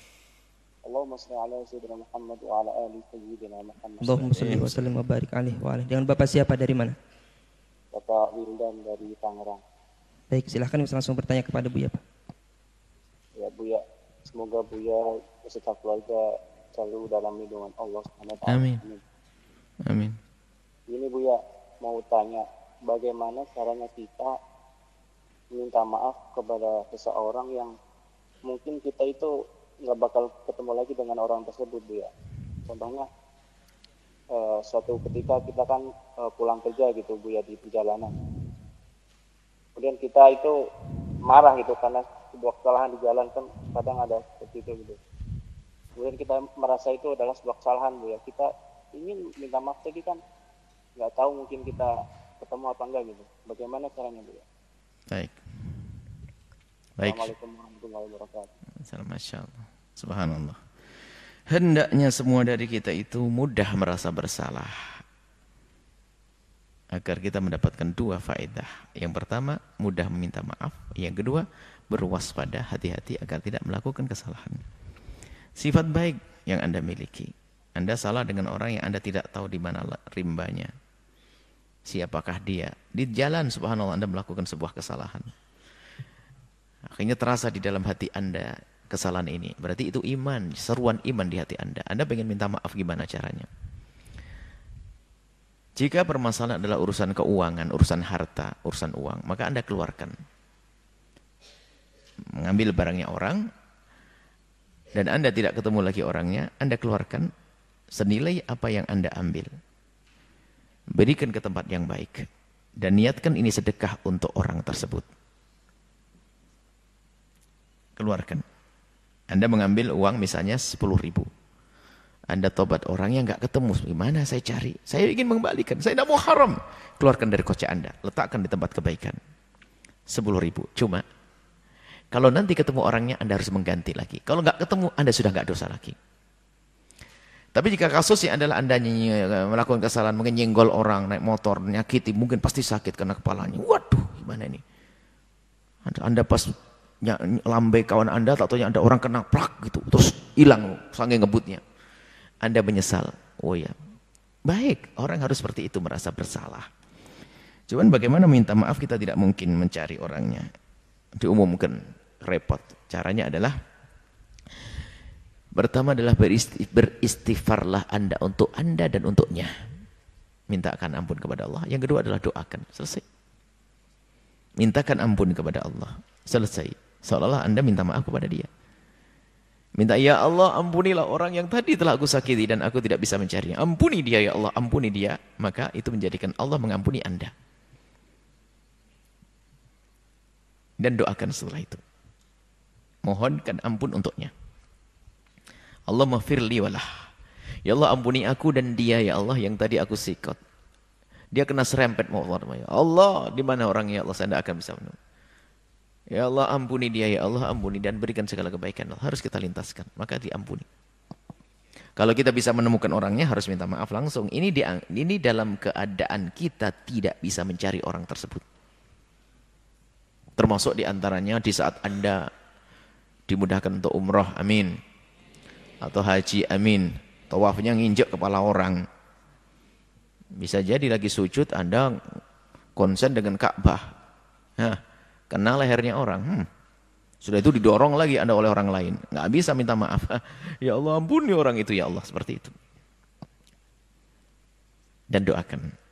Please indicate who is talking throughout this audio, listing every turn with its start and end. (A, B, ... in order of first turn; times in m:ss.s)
0:00.8-0:04.7 A
0:04.0-0:07.0 B
0:04.4-0:04.9 C
0:07.9-0:09.6 A
0:10.3-0:12.0 B
0:13.4-0:19.0 A
0:18.5-0:18.8 C
0:19.9-0:20.2 C
0:20.9-0:24.3 A
0:25.5-0:27.7 A
0:28.5-0:29.3 A
0:29.9-0:32.1 A
0:32.7-0:33.1 A
0:34.3-0:38.1 A
0:39.8-0:40.6 A
0:41.2-0:45.0 A
0:46.0-0:50.2 A
0:51.0-0:54.4 A
0:55.1-0:55.4 C
0:57.0-0:57.3 C
0:57.0-0:58.5 A
0:58.8-1:00.6 C
1:01.5-1:05.0 C
1:07.0-1:14.6 C
1:15.6-1:20.7 C
1:21.9-1:25.4 C
1:26.9-1:33.5 C
1:35.8-1:40.2 C
1:42.4-1:43.4 C
1:44.9-1:47.3 C
1:48.0-1:49.5 C
1:51.0-1:52.3 C
1:52.8-1:55.1 C
1:58.0-1:58.4 C
1:59.3-2:01.3 C
2:02.3-2:09.2 C
2:10.1-2:11.0 C
2:12.1-2:16.0 C
2:17.5-2:24.6 C
2:25.9-2:31.6 C
2:32.4-2:33.8 C
2:34.5-2:36.7 C
2:37.7-2:40.5 C
2:41.2-2:43.6 C
2:45.6-2:49.5 C
2:50.5-2:53.0 C
2:54.6-2:58.5 C
2:59.8-3:07.3 C
3:10.8-3:11.8 C
3:13.0-3:14.3 C
3:15.9-3:17.0 C
3:17.7-3:20.4 C
3:21.3-3:25.0 C
3:26.1-3:30.7 C
3:32.0-3:38.4 C
3:40.4-3:42.3 C
3:43.3-3:44.8 C
3:45.8-3:48.8 C
3:50.4-3:52.2 C
3:52.8-3:53.9 C
3:55.3-3:56.5 C
3:57.2-4:02.6 C
4:05.1-4:05.7 C